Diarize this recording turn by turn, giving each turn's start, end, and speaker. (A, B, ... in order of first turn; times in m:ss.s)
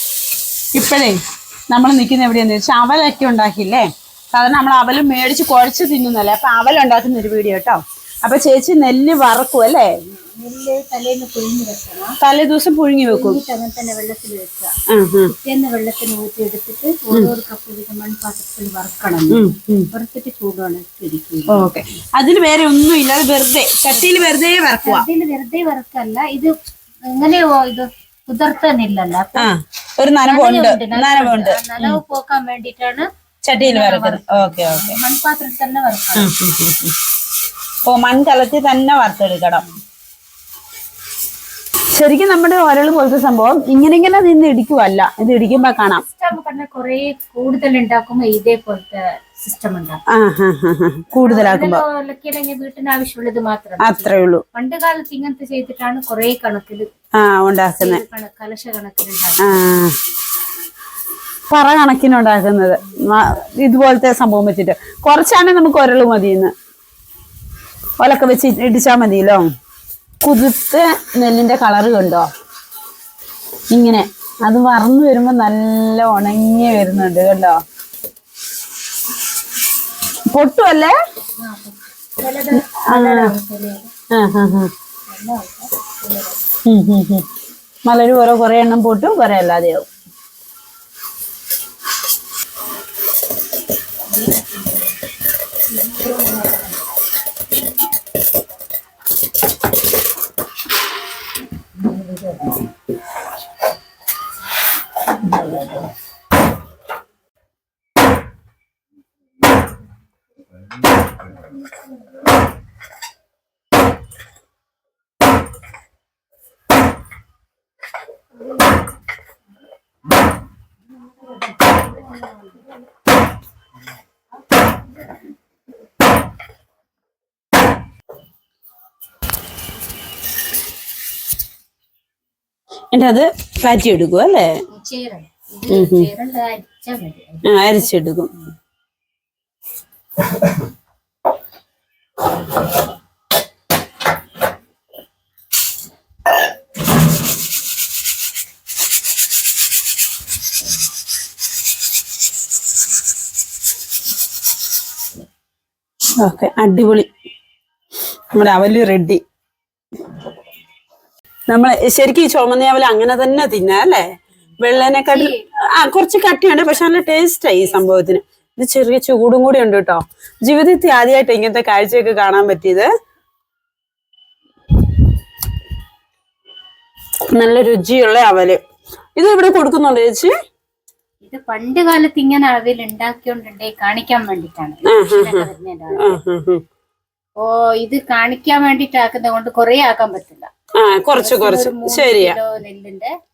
0:00.7-0:01.2 A
0:01.7-0:09.9 A
0:10.0-0:12.2 B
0:12.2-0:13.4 A
0:13.0-0:14.7 B
0:14.9-0:15.3 A
0:15.3-0:21.7 B
0:19.3-0:19.9 A
0:21.5-0:25.0 A
0:23.9-0:26.5 B
0:27.1-0:29.5 B
0:29.4-0:32.0 A
0:30.3-0:33.1 B
0:33.4-0:35.0 A
0:33.6-0:36.3 B
0:36.2-0:37.0 A
0:37.8-0:39.6 A
0:42.0-0:46.0 A
0:45.6-0:50.0 B
0:50.1-0:51.8 A
0:51.2-0:56.9 B
0:53.8-0:54.4 A
0:57.2-0:58.0 A
0:57.8-0:59.7 B
0:59.4-1:00.0 A
1:01.5-1:06.5 A
1:02.9-1:03.3 B
1:08.0-1:09.5 A
1:10.2-1:12.3 A
1:13.7-1:17.6 A
1:20.3-1:20.9 A
1:21.4-1:23.9 B
1:22.8-1:23.3 A
1:24.1-1:24.7 A
1:25.1-1:26.5 B
1:26.7-1:27.3 A
1:27.8-1:29.8 A
1:34.1-1:34.9 B
1:35.8-1:36.6 B
2:12.9-2:14.5 A
2:14.7-2:17.9 B
2:15.7-2:16.1 A
2:17.4-2:18.3 A
2:36.2-2:37.1 A
2:38.3-2:39.2 A
2:41.5-2:44.0 A
2:44.6-2:52.9 A
2:45.1-2:45.4 B
2:46.5-2:47.8 B
2:57.3-2:58.6 A
2:59.2-3:00.3 A
3:01.2-3:06.2 B
3:04.9-3:06.6 A
3:07.4-3:10.5 B
3:10.8-3:12.4 A
3:11.2-3:13.1 B